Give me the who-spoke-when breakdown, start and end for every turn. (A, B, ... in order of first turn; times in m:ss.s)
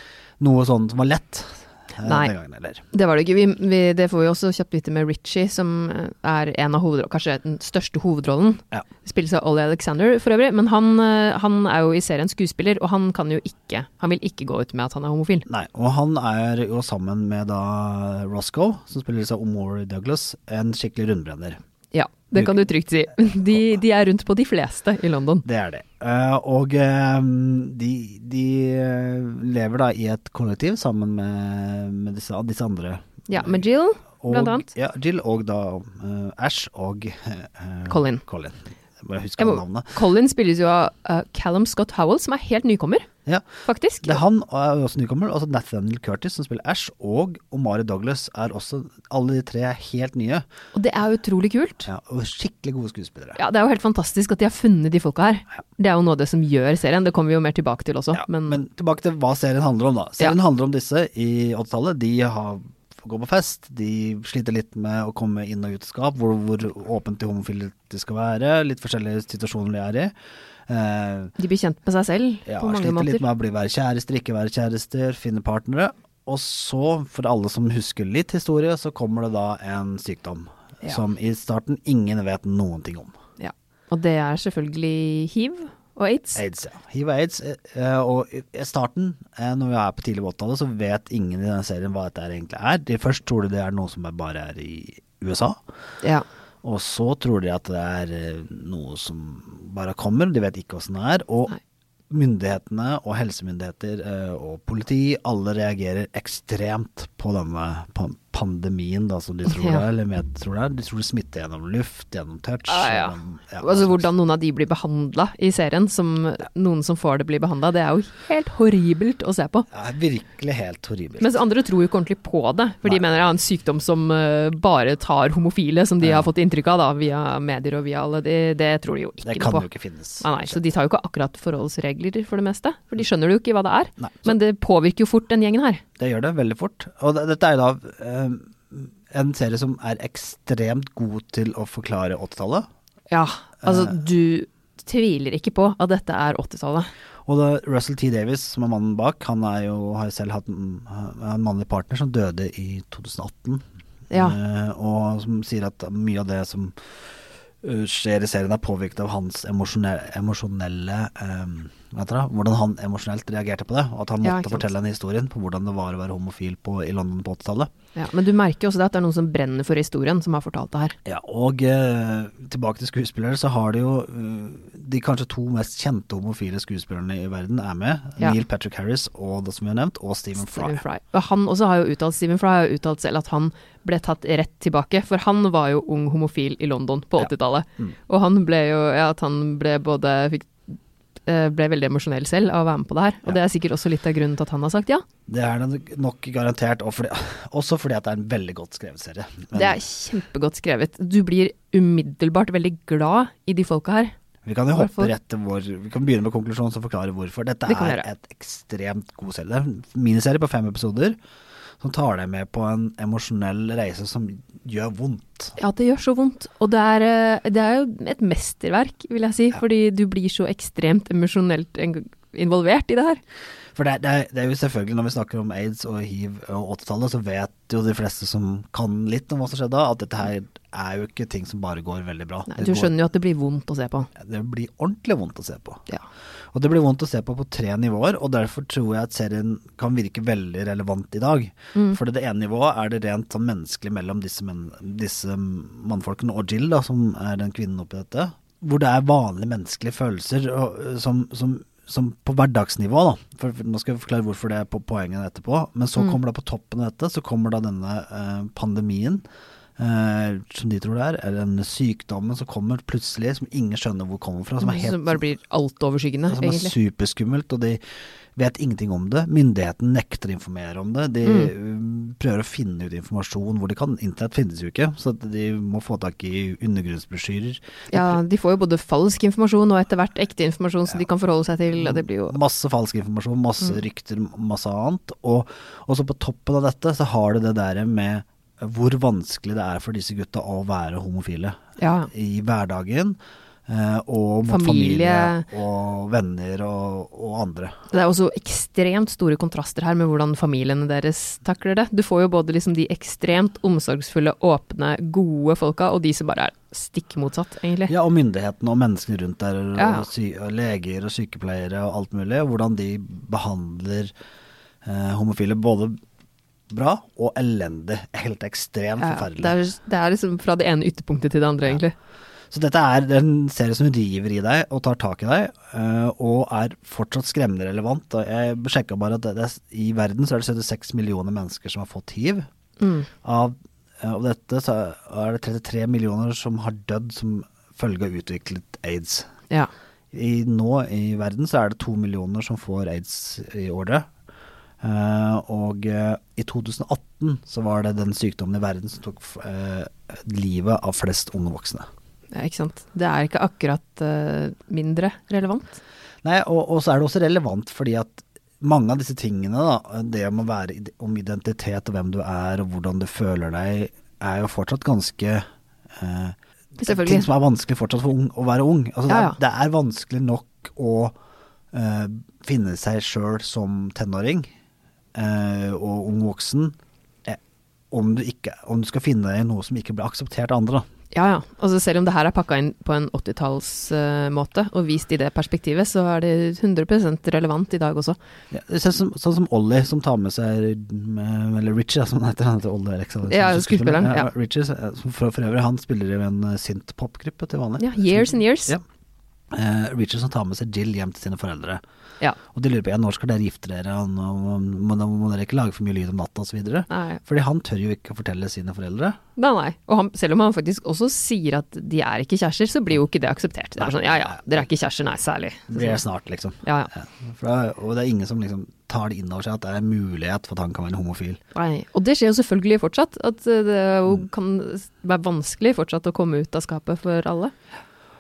0:00.4-0:02.8 A
0:02.0-0:02.3 B
0:02.9-0:15.4 B
0:15.4-0:21.6 A
0:21.9-0:25.4 B
0:25.4-0:33.6 A
0:33.3-0:34.7 B
0:34.2-0:40.0 A
0:37.9-0:38.2 B
0:39.4-0:43.1 B
0:43.6-0:44.2 B
0:44.0-0:50.4 A
0:50.7-0:51.9 B
0:51.8-0:53.4 A
0:53.3-0:58.6 B
0:58.1-1:10.1 A
1:10.7-1:11.3 A
1:11.4-1:13.3 B
1:12.4-1:23.1 A
1:23.4-1:26.4 B
1:26.3-1:35.6 A
1:36.6-1:41.6 A
1:42.1-1:54.1 A
1:49.5-1:49.8 B
1:52.7-1:59.7 B
1:59.7-2:01.4 A
2:01.2-2:09.7 B
2:06.0-2:06.3 A
2:09.2-2:10.6 A
2:10.2-2:15.8 B
2:14.0-2:14.4 A
2:16.0-2:22.7 A
2:23.1-2:26.9 B
2:23.6-2:23.9 A
2:27.2-2:36.7 A
2:34.1-2:34.4 B
2:37.6-2:47.7 A
2:44.2-2:44.7 B
2:48.0-2:51.0 B
2:51.0-3:00.8 A
3:00.4-3:10.7 B
3:11.2-3:15.0 B
3:15.3-3:19.8 A
3:19.5-3:24.1 B
3:24.4-3:31.2 A
3:24.7-3:25.1 B
3:27.7-3:28.0 B
3:31.8-3:35.6 A
3:35.6-3:43.2 B
3:43.7-3:53.0 A
3:52.5-3:54.1 B
3:54.2-3:55.8 A
3:56.5-4:19.2 A
4:19.8-4:25.2 A
4:24.6-4:26.7 B
4:26.3-4:27.8 A
4:28.4-4:38.2 A
4:31.2-4:31.5 B
4:37.9-4:42.4 B
4:41.8-4:51.6 A
4:51.8-4:52.1 B
4:52.1-4:57.7 A
4:54.5-4:55.5 B
4:57.9-5:07.9 B
5:07.9-5:14.1 A
5:09.8-5:10.1 B
5:14.8-5:16.0 A
5:16.7-5:19.5 A
5:19.0-5:21.9 B
5:22.5-5:32.5 A
5:32.8-5:33.1 B
5:33.2-5:39.3 A
5:40.1-5:44.1 A
5:44.8-5:51.9 A
5:52.3-5:55.8 B
5:56.2-6:05.4 A
6:06.0-6:11.2 A
6:06.8-6:07.3 B
6:09.1-6:09.4 B
6:11.7-6:14.5 A
6:15.1-6:17.4 A
6:17.9-6:20.8 A
6:21.1-6:28.2 B
6:28.5-6:38.8 A
6:33.3-6:34.3 B
6:37.8-6:38.8 B
6:39.5-6:41.8 A
6:42.5-6:49.2 A
6:46.9-6:47.2 B
6:49.4-6:56.0 B
6:53.8-6:54.4 A
6:55.7-7:01.4 A
6:56.6-6:56.9 B
7:01.5-7:07.5 B